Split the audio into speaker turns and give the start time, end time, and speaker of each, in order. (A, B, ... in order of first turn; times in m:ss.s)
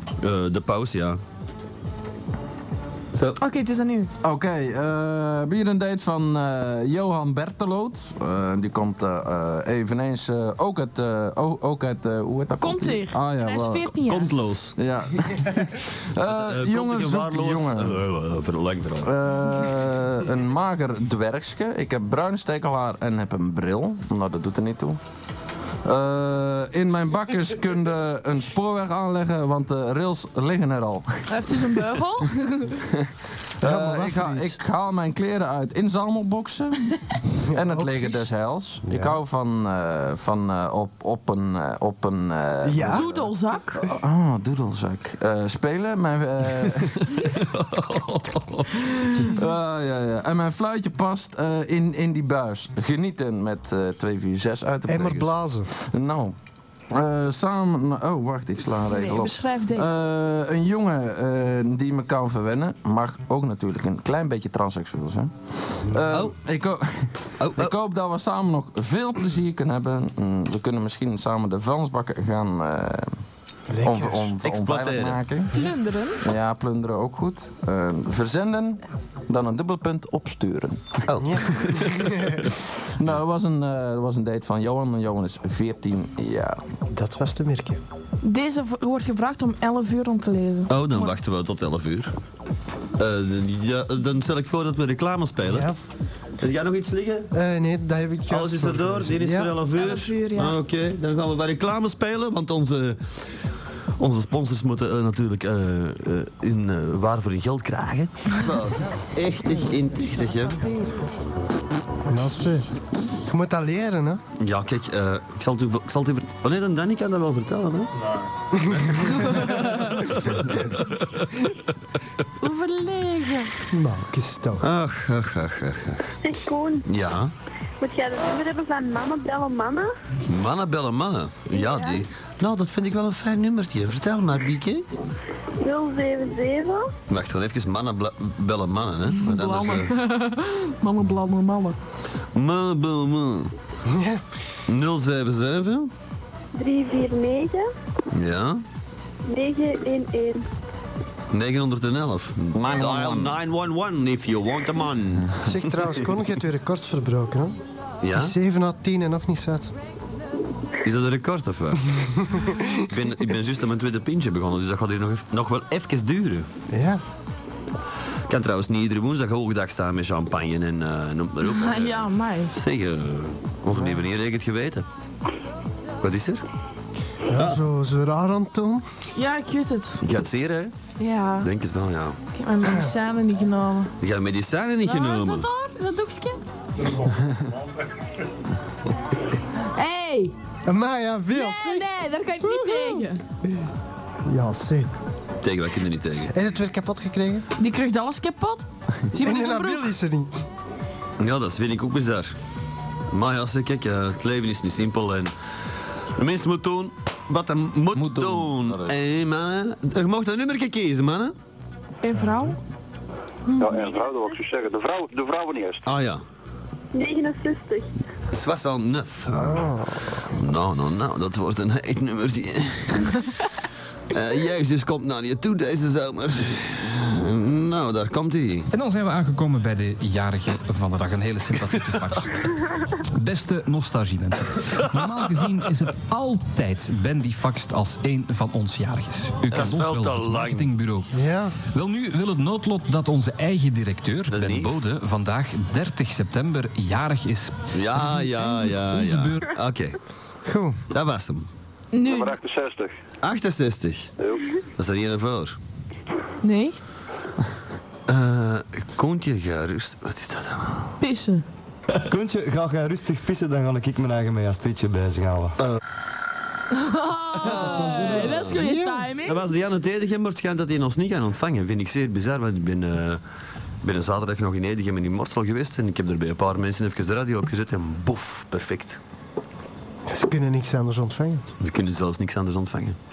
0:00.2-0:01.2 A
0:03.4-0:04.1 B
0:04.2-0:13.9 C
0:12.6-0:14.3 B
0:14.0-0:15.3 A
0:14.8-0:18.0 C
0:16.2-0:19.1 A
0:19.0-0:25.0 C
0:25.8-0:31.2 C
0:31.3-0:32.8 B
0:33.6-0:37.0 C
0:33.6-0:34.6 D
0:37.5-0:47.3 C
0:37.6-0:38.3 D
0:38.9-0:39.2 D
0:42.6-0:43.0 D
0:42.9-0:43.8 B
0:46.6-0:49.1 A
0:49.3-0:56.4 C
0:54.9-0:55.7 D
0:56.9-1:13.1 C
0:58.9-0:59.9 B
1:06.1-1:06.4 A
1:07.4-1:07.8 A
1:13.7-1:14.3 D
1:13.8-1:15.5 C
1:14.4-1:15.2 A
1:15.5-1:16.2 B
1:16.2-1:21.0 C
1:21.1-1:22.0 A
1:21.2-1:22.4 D
1:23.0-1:26.6 C
1:26.9-1:27.8 D
1:28.2-1:31.1 B
1:30.7-1:32.1 A
1:33.0-1:35.7 A
1:35.5-1:35.8 D
1:36.4-1:37.3 A
1:37.3-1:39.6 D
1:38.3-1:43.3 A
1:39.7-1:40.6 B
1:44.0-1:50.6 A
1:52.1-1:54.2 D
1:54.4-1:58.1 A
1:58.5-1:59.2 D
1:58.7-2:01.5 A
1:59.3-1:59.8 B
2:02.4-2:03.5 B
2:03.7-2:04.6 D
2:04.6-2:06.1 A
2:06.2-2:06.8 E
2:06.9-2:07.3 A
2:07.8-2:09.9 E
2:10.3-2:14.9 A
2:11.5-2:12.0 E
2:15.6-2:16.9 E
2:17.1-2:19.9 A
2:19.2-2:21.8 B
2:22.3-2:23.5 A
2:23.9-2:24.2 D
2:24.7-2:25.9 A
2:26.6-2:27.7 E
2:28.1-2:28.6 A
2:29.3-2:30.4 E
2:31.3-2:36.1 A
2:32.5-2:33.4 C
2:35.4-2:37.6 D
2:38.0-2:38.4 A
2:38.1-2:39.7 D
2:40.8-2:42.0 A
2:42.2-2:42.8 D
2:42.8-2:46.5 A
2:46.7-2:47.0 D
2:48.3-2:54.9 A
2:51.5-2:52.5 B
2:53.7-2:54.0 D
2:56.0-2:56.4 A
2:57.3-2:58.8 D
2:57.3-2:57.6 A
2:59.1-3:00.0 B
3:00.0-3:00.7 A
3:01.0-3:01.5 B
3:01.4-3:02.2 A
3:02.3-3:03.9 B
3:02.6-3:02.9 D
3:04.0-3:05.5 A
3:04.8-3:06.4 B
3:09.7-3:10.3 B
3:10.7-3:11.9 D
3:11.3-3:13.2 B
3:12.4-3:13.0 D
3:14.3-3:14.9 D
3:15.4-3:16.3 A
3:16.3-3:17.5 D
3:17.6-3:19.9 B
3:19.2-3:20.3 D
3:21.2-3:22.4 A
3:23.1-3:25.3 A
3:26.2-3:31.4 A
3:27.9-3:28.9 C
3:32.0-3:32.6 B
3:32.1-3:32.5 D
3:33.5-3:33.9 D
3:33.6-3:35.8 F
3:35.8-3:36.2 A
3:36.9-3:37.9 E
3:38.3-3:43.2 A
3:39.4-3:39.8 D
3:44.1-3:48.7 A
3:48.7-3:52.4 G
3:51.6-3:52.3 A
3:53.1-4:01.1 G
3:59.5-4:00.8 A
4:01.1-4:01.6 D
4:01.7-4:09.5 G
4:04.3-4:04.8 A
4:07.7-4:10.0 A
4:10.5-4:10.8 D
4:10.9-4:11.5 A
4:11.9-4:12.4 B
4:12.0-4:12.9 F
4:13.2-4:14.1 A
4:14.2-4:14.5 F
4:14.8-4:15.6 A
4:16.4-4:16.8 B
4:18.1-4:20.9 A
4:21.0-4:21.4 B
4:22.1-4:25.6 H
4:26.7-4:29.4 B
4:27.4-4:28.6 A
4:28.6-4:29.1 D
4:29.2-4:33.2 A
4:33.8-4:39.0 A
4:40.1-4:41.5 D
4:41.6-4:43.0 A